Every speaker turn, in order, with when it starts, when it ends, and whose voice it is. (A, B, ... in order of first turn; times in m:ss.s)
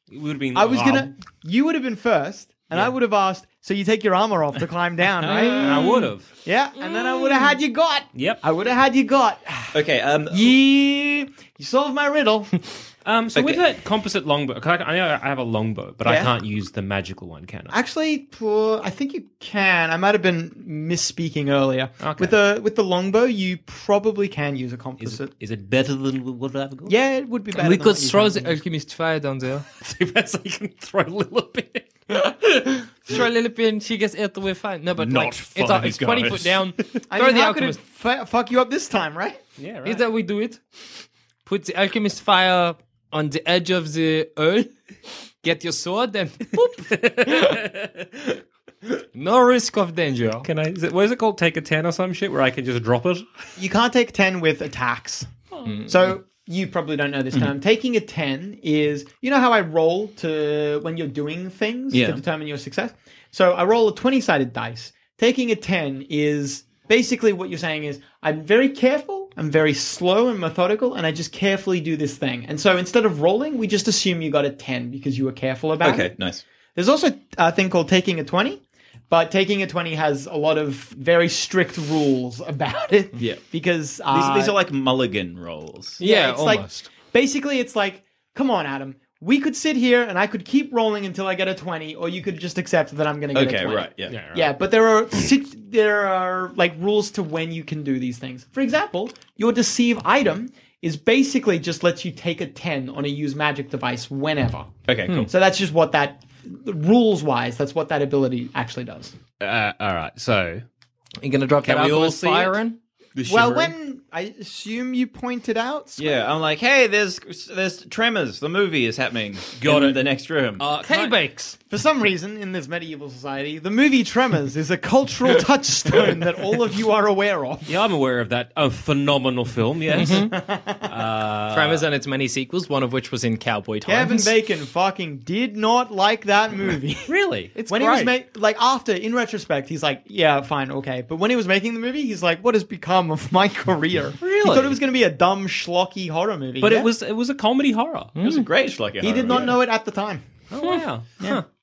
0:00.1-0:01.1 A
0:00.5-0:12.7 B
0:05.4-0:06.1 C
0:05.6-0:06.3 A
0:06.8-0:07.5 C
0:08.1-0:08.4 A
0:09.7-0:10.6 D
0:13.0-0:17.8 A
0:13.3-0:13.6 D
0:16.0-0:16.3 B
0:17.7-0:25.3 B
0:22.0-0:22.4 A
0:25.0-0:26.9 A
0:26.9-0:28.6 B
0:27.5-0:29.6 C
0:29.8-0:31.9 A
0:32.1-0:37.8 C
0:35.0-0:36.6 D
0:37.1-0:39.4 B
0:39.6-0:40.0 A
0:39.8-0:40.6 C
0:41.4-0:44.8 C
0:45.4-0:47.6 C
0:46.9-0:48.4 A
0:49.1-0:50.5 C
0:50.4-0:53.2 A
0:53.6-0:55.3 B
0:55.6-0:55.9 C
0:55.9-1:16.1 B
1:01.9-1:02.2 D
1:15.8-1:16.4 D
1:16.8-1:24.6 B
1:23.2-1:23.4 D
1:24.1-1:26.0 D
1:26.0-1:26.9 C
1:26.0-1:44.8 B
1:33.3-1:34.2 D
1:34.1-1:34.5 A
1:44.9-1:45.3 D
1:45.3-1:49.2 B
1:49.4-1:50.6 A
1:51.2-1:52.8 C
1:51.6-1:52.6 A
1:53.2-1:53.7 A
1:53.2-1:56.2 B
1:56.0-2:00.6 D
1:59.6-2:01.2 A
2:00.8-2:01.6 C
2:01.7-2:07.7 B
2:07.6-2:11.9 A
2:09.9-2:10.3 C
2:10.0-2:10.9 B
2:11.5-2:14.3 C
2:13.8-2:17.1 B
2:17.1-2:17.6 A
2:17.5-2:18.1 C
2:17.6-2:26.9 B
2:24.2-2:24.8 A
2:26.6-2:28.2 A
2:28.2-2:28.5 C
2:28.2-2:29.6 D
2:29.0-2:30.2 B
2:30.5-2:31.4 A